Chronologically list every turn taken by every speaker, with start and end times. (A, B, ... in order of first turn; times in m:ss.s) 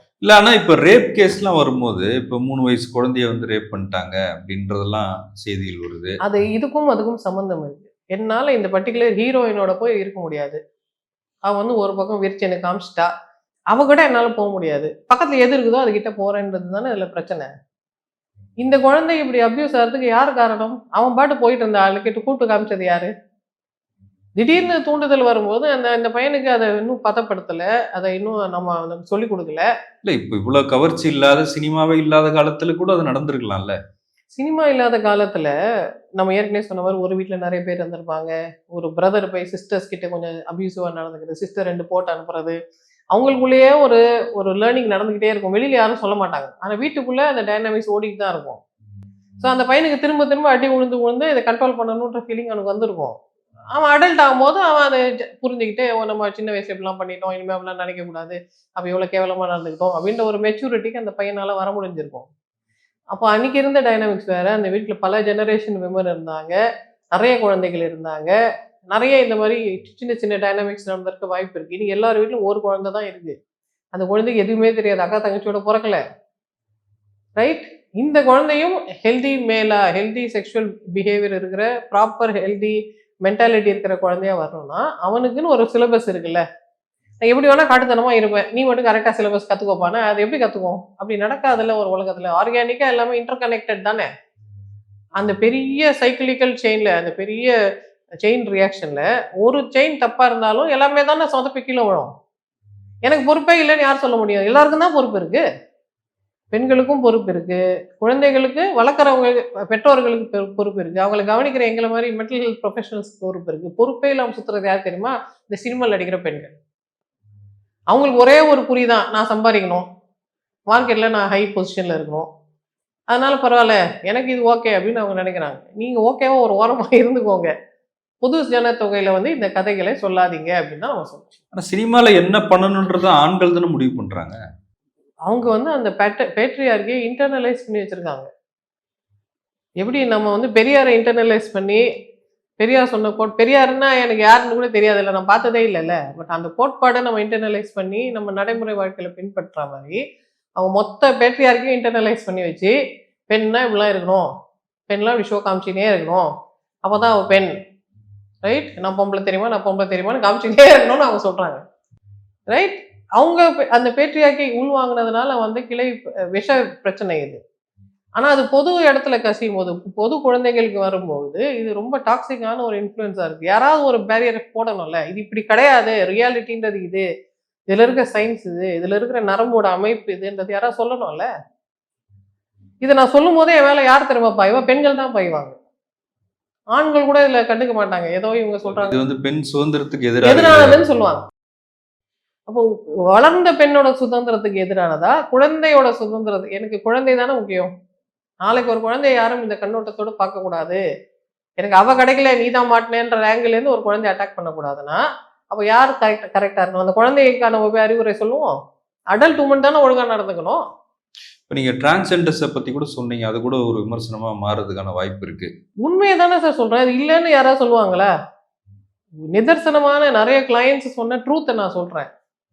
0:00.2-0:06.2 A
0:06.2-0:10.6 B
0:11.5-0:13.1 B
0:13.7-0:17.5 B
0:18.6-0:23.1 B
0:24.4-0:29.7 B
0:30.0-0:33.7 A
0:34.4-0:35.5 B
0:36.2-0:42.6 B
0:43.1-0:48.6 B
0:49.4-0:53.1 B
0:53.7-1:02.3 B
1:03.1-1:06.6 B
1:07.2-1:08.4 B
1:08.9-1:13.3 B
1:13.9-1:16.0 B
1:17.4-1:26.4 B
1:27.2-1:34.1 B
1:35.2-1:37.5 B
1:38.2-1:42.1 B
1:43.0-1:45.4 B
1:46.5-1:56.5 B
1:57.9-1:59.8 B
2:00.7-2:02.2 B
2:03.1-2:07.5 B
2:08.2-2:11.3 B
2:11.5-2:14.3 A
2:15.3-2:18.3 B
2:19.8-2:21.8 B
2:22.6-2:30.0 B
2:30.6-2:32.7 B
2:33.3-2:34.3 B
2:34.9-2:36.3 B
2:36.8-2:37.5 B
2:38.4-2:41.6 B
2:42.5-2:47.4 B
2:48.2-2:57.0 B
2:57.7-3:01.3 B
3:02.8-3:05.5 B
3:06.7-3:08.9 B
3:08.7-3:10.8 A
3:10.2-3:11.2 B
3:12.5-3:17.7 B
3:18.4-3:20.8 B
3:21.6-3:28.5 B
3:29.1-3:30.6 B
3:31.5-3:35.5 A
3:35.8-3:38.1 B
3:39.3-3:42.1 B